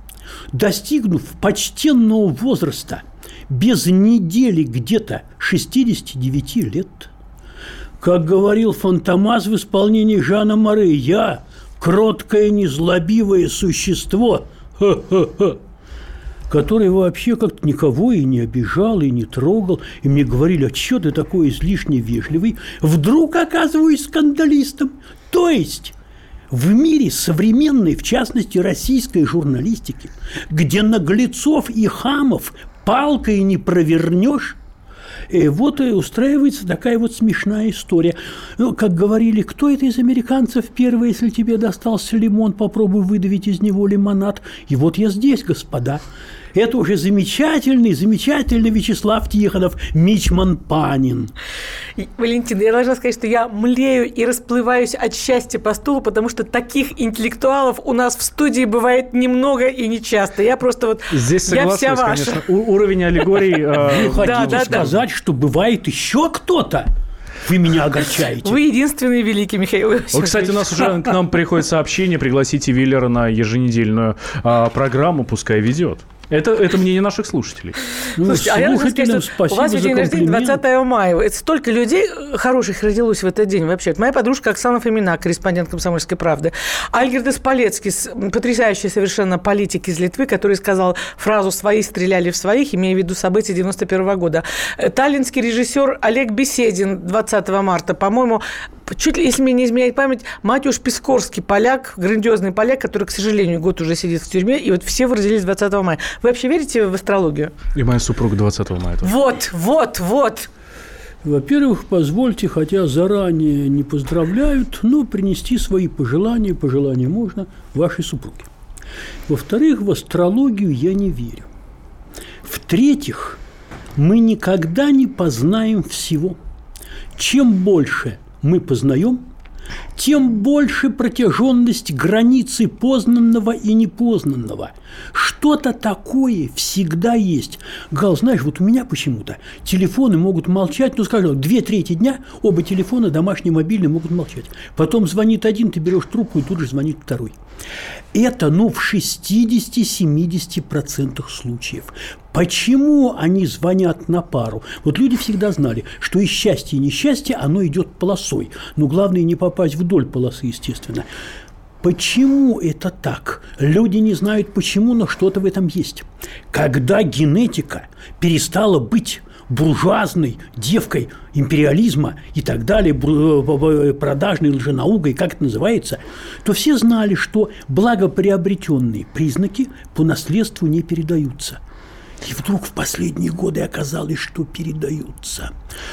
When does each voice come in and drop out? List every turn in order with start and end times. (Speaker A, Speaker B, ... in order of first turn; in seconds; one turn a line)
Speaker A: 0.5-7.1
Speaker A: 8.0-15.6
Speaker A: 16.5-25.9
Speaker A: 26.5-34.6
Speaker A: 35.3-46.0
Speaker A: 46.5-51.3
Speaker B: 52.0-62.4
Speaker C: 61.1-64.9
Speaker A: 63.8-66.9
Speaker B: 64.0-64.9
Speaker A: 67.4-68.6
Speaker B: 68.4-70.8
Speaker C: 70.1-77.8
Speaker A: 78.2-80.6
Speaker B: 78.2-107.5
Speaker C: 107.8-109.1
Speaker B: 109.0-110.5
Speaker A: 111.2-118.5
Speaker A: 119.3-121.5
Speaker A: 122.4-123.4
Speaker A: 124.0-126.4
Speaker A: 127.2-129.2
Speaker A: 129.9-147.3
Speaker A: 148.1-161.1
Speaker A: 161.8-181.6
Speaker A: 182.2-185.5